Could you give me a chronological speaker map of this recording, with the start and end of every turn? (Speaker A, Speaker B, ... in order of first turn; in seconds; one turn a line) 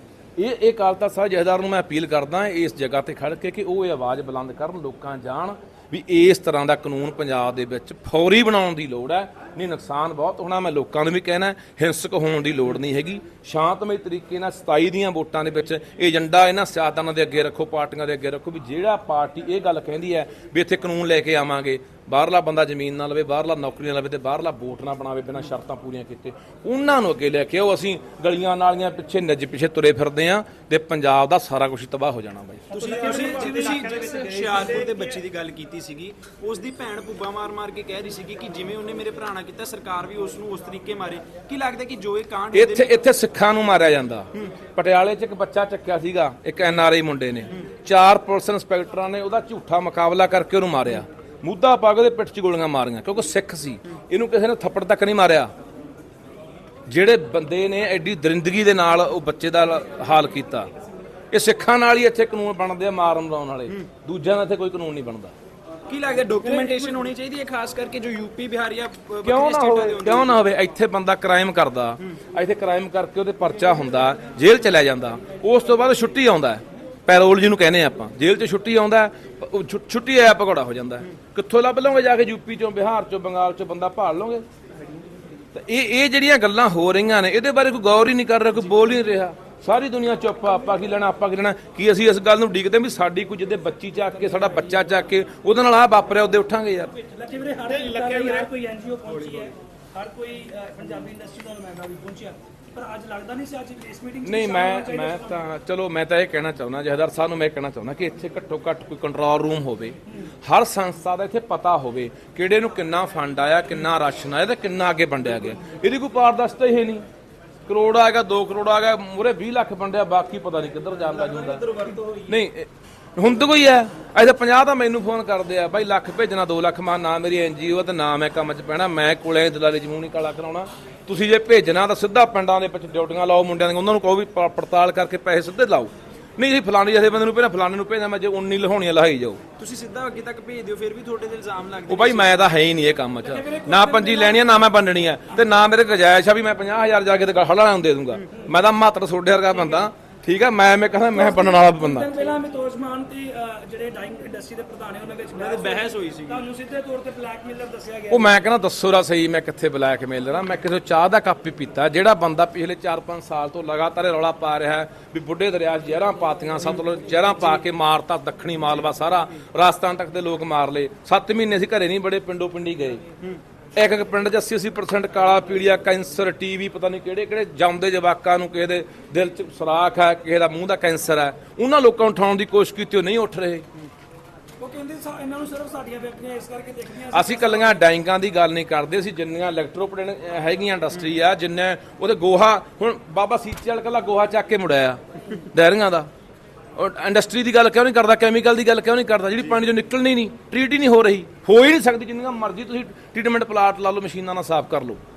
Speaker A: 0.4-32.7
Speaker B: 32.7-35.2
Speaker C: 32.7-43.0
Speaker A: 42.5-55.5
Speaker A: 56.9-60.7
Speaker A: 61.3-65.3
Speaker C: 65.9-70.4
Speaker B: 66.5-66.9
Speaker A: 69.2-84.4
Speaker A: 85.5-96.9
Speaker B: 97.0-105.4
Speaker C: 98.0-98.4
Speaker A: 104.2-117.0
Speaker A: 117.7-121.7
Speaker C: 121.1-122.3
Speaker A: 122.2-139.4
Speaker C: 139.6-142.5
Speaker A: 141.9-152.1
Speaker B: 143.2-144.4
Speaker B: 151.1-158.3
Speaker C: 155.3-156.4
Speaker A: 158.1-173.0
Speaker A: 173.7-183.7
Speaker B: 184.6-187.8
Speaker A: 187.1-196.1
Speaker A: 196.8-205.0